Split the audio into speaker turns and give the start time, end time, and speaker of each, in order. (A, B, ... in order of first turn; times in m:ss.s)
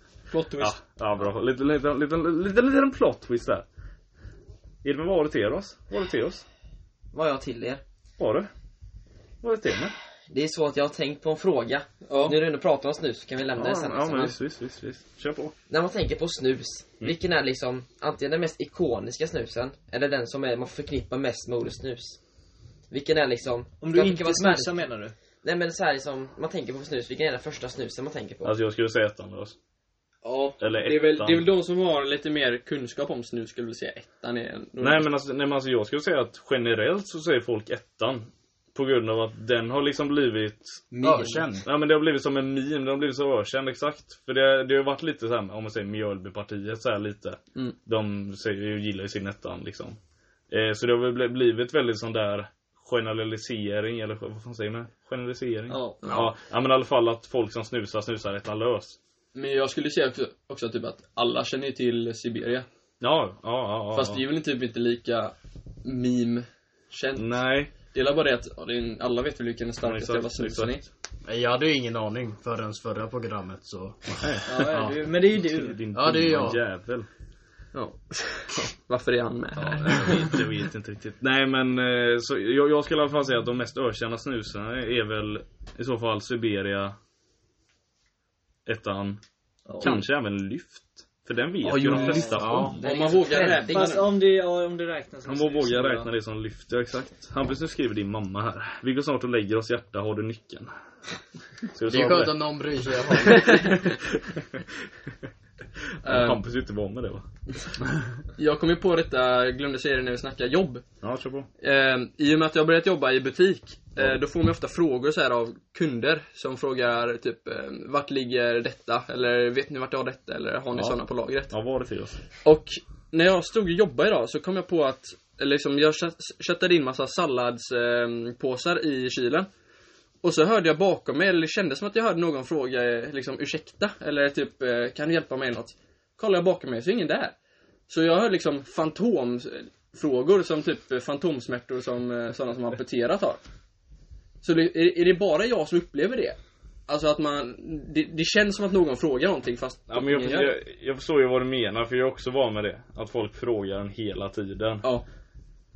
0:00.3-0:00.8 A
0:00.6-0:03.7 B
0:04.8-0:06.4 B
0:07.1-0:07.8 C
0:08.2-0:08.5 B
0:09.4-0:09.9 B
0:10.3-0:14.4 C
0:12.1-0:12.4 A
0:13.6-0:15.6 B
0:15.7-0:22.2 C
0:22.9-0:24.8 C
0:23.8-0:25.1 D
0:25.4-0:28.5 C
0:28.4-0:29.6 B
0:30.2-0:35.1 A
0:30.6-0:31.4 B
0:34.8-0:40.8 B
0:40.9-0:41.4 C
0:41.0-0:41.7 E
0:41.6-0:50.0 B
0:50.5-0:59.0 B
0:55.7-0:56.1 D
0:59.3-1:02.7 A
1:03.0-1:04.2 B
1:03.9-1:10.9 A
1:07.2-1:07.7 B
1:09.8-1:10.8 B
1:11.2-1:14.9 E
1:14.1-1:17.1 B
1:14.5-1:15.8 D
1:15.9-1:16.6 E
1:17.7-1:20.5 A
1:19.6-1:27.0 B
1:28.7-1:29.2 B
1:29.7-1:30.0 D
1:29.8-1:32.8 B
1:31.6-1:34.1 A
1:32.4-1:32.8 E
1:32.8-1:34.0 C
1:33.6-1:36.1 D
1:35.3-1:40.7 B
1:41.7-1:42.4 B
1:41.9-1:43.7 E
1:43.2-1:44.6 B
1:43.3-1:43.6 A
1:46.0-1:47.2 B
1:46.0-1:46.4 A
1:48.4-1:50.8 A
1:51.0-1:51.5 B
1:51.6-2:01.5 A
2:00.7-2:01.0 B
2:01.5-2:02.2 B
2:02.4-2:09.5 A
2:10.2-2:17.3 A
2:17.9-2:23.4 A
2:24.4-2:30.6 A
2:29.9-2:34.9 B